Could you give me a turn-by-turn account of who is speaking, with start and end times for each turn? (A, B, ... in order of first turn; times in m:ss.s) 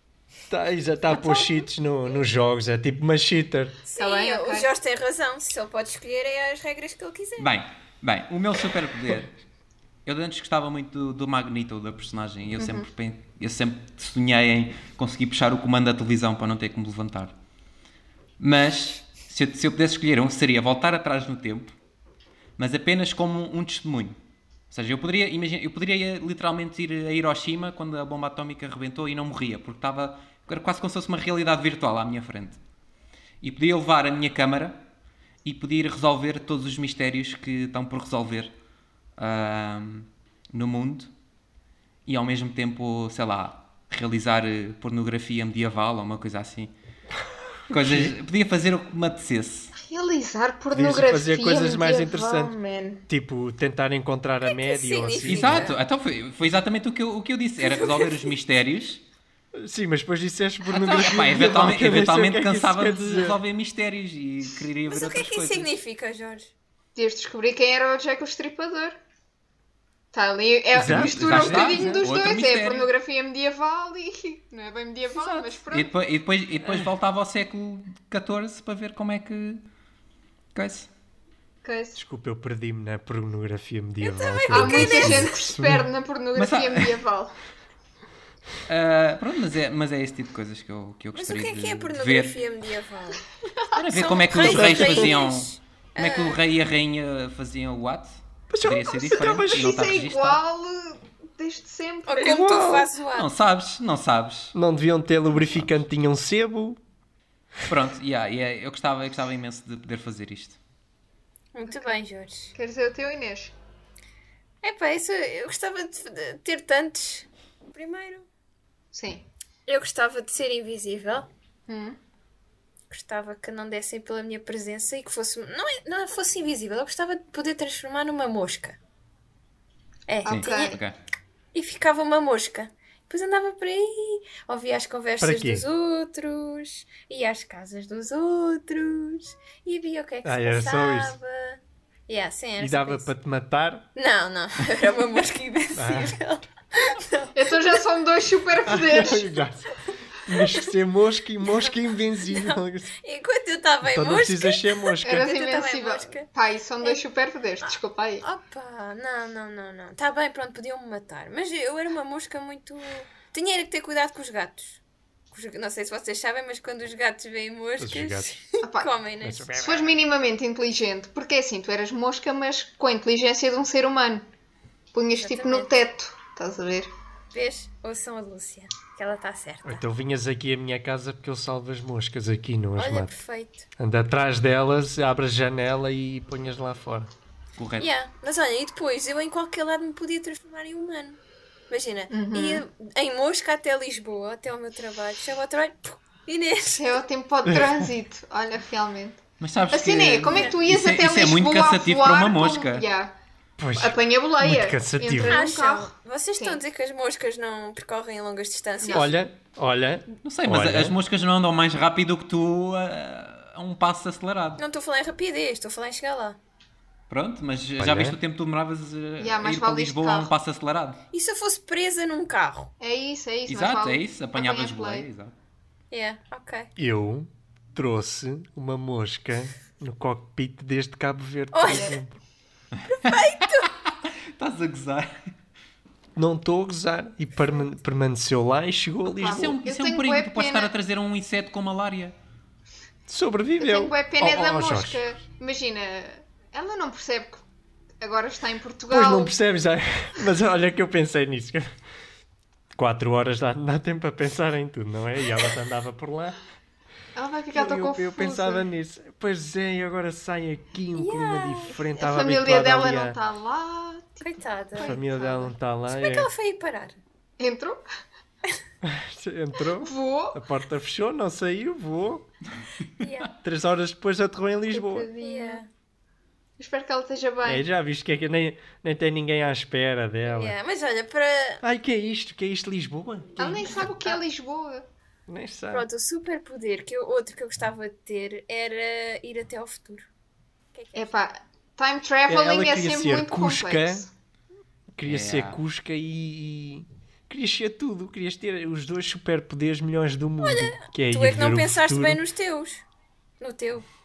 0:00.5-0:03.8 A
0:01.2-0:01.4 B
0:03.9-0:07.5 B
0:04.0-0:04.7 C
0:07.4-0:09.3 D
0:10.1-0:17.3 D
0:12.6-0:12.9 C
0:18.4-0:21.8 D
0:22.6-0:24.2 D
0:24.7-0:32.6 D
0:33.4-0:34.8 D
0:35.4-0:38.5 D
0:39.2-0:41.1 D
0:42.1-0:46.7 D
0:47.7-0:48.2 A
0:47.7-0:49.7 D
0:49.8-0:53.0 C
0:50.7-0:52.5 A
0:53.1-0:55.7 A
0:54.5-0:55.8 B
0:55.2-0:59.0 D
0:57.6-0:58.3 B
0:59.6-1:03.4 A
1:00.7-1:05.7 D
1:04.9-1:06.5 B
1:07.0-1:09.0 C
1:10.1-1:15.9 C
1:10.7-1:12.0 A
1:10.7-1:12.9 D
1:15.2-1:19.6 D
1:20.6-1:20.9 D
1:21.6-1:22.0 C
1:22.0-1:25.9 A
1:24.0-1:25.4 B
1:24.5-1:27.3 C
1:26.4-1:26.9 D
1:28.7-1:32.4 D
1:31.1-1:33.2 B
1:33.8-1:40.4 D
1:33.9-1:36.4 B
1:34.4-1:35.1 A
1:38.5-1:39.8 A
1:39.1-1:42.5 C
1:42.1-1:43.3 B
1:42.2-1:42.9 A
1:43.1-1:44.5 D
1:44.6-1:46.8 A
1:45.4-1:45.7 D
1:47.7-1:50.6 D
1:51.5-1:52.5 B
1:52.6-1:53.5 C
1:54.6-1:58.3 B
1:58.9-1:59.2 C
1:59.7-2:01.3 B
2:01.7-2:02.0 C
2:02.9-2:08.8 B
2:10.1-2:10.8 B
2:10.2-2:10.8 C
2:10.3-2:11.0 D
2:11.5-2:23.1 B
2:15.2-2:15.6 A
2:20.2-2:21.2 A
2:22.6-2:23.8 A
2:24.0-2:27.8 B
2:25.8-2:26.2 A
2:27.4-2:29.3 C
2:28.6-2:32.9 A
2:31.4-2:31.7 B
2:32.2-2:36.3 B
2:33.8-2:35.3 A
2:35.0-2:38.2 C
2:37.6-2:44.8 B
2:45.3-2:49.6 B
2:47.8-2:48.4 A
2:48.6-2:48.9 C
2:49.2-2:50.0 A
2:49.6-2:54.3 C
2:54.9-2:56.9 C
2:55.2-2:55.7 B
2:57.3-2:59.8 B
2:59.6-3:03.1 A
3:02.8-3:03.7 B
3:03.8-3:07.1 A
3:07.6-3:07.9 D
3:07.8-3:11.2 B
3:11.7-3:17.0 B
3:12.1-3:12.6 C
3:16.7-3:23.2 C
3:17.4-3:17.8 A
3:19.4-3:22.9 D
3:23.6-3:25.4 A
3:23.8-3:26.6 C
3:25.3-3:29.2 B
3:28.8-3:29.1 C
3:28.9-3:31.0 A
3:30.2-3:34.6 D
3:34.6-3:36.4 B
3:37.1-3:41.0 D
3:37.8-3:38.2 A
3:39.2-3:40.3 C
3:41.1-3:42.7 B
3:42.8-3:45.1 C
3:43.5-3:45.3 D
3:45.9-3:46.7 B
3:46.8-3:52.1 A
3:51.5-3:52.0 B
3:51.7-3:52.0 C
3:52.9-3:53.7 B
3:53.1-3:55.2 D
3:56.2-3:59.6 A
3:59.0-4:00.7 C
3:59.2-4:02.1 D
4:03.1-4:05.0 A
4:03.6-4:07.4 C
4:08.0-4:09.3 C
4:08.9-4:11.7 A
4:12.8-4:16.4 A
4:17.2-4:18.7 C
4:17.5-4:23.2 A
4:21.0-4:21.8 B
4:22.0-4:25.5 C
4:24.2-4:25.0 B
4:24.8-4:26.3 A
4:25.9-4:27.0 B
4:27.4-4:27.8 C
4:28.8-4:32.3 A
4:29.8-4:30.4 C
4:33.0-4:33.3 B
4:33.4-4:35.1 A
4:34.7-4:35.6 C
4:35.2-4:35.7 B
4:36.6-4:37.6 C
4:37.4-4:40.6 A
4:40.2-4:41.6 B
4:41.6-4:43.9 A
4:43.4-4:44.9 C
4:45.3-4:45.9 A
4:45.7-4:50.1 B
4:50.8-4:51.1 B
4:51.0-4:54.1 C
4:52.3-4:54.1 A
4:55.0-5:02.2 A
4:55.0-4:55.6 D
5:00.4-5:02.8 B
5:03.4-5:03.9 B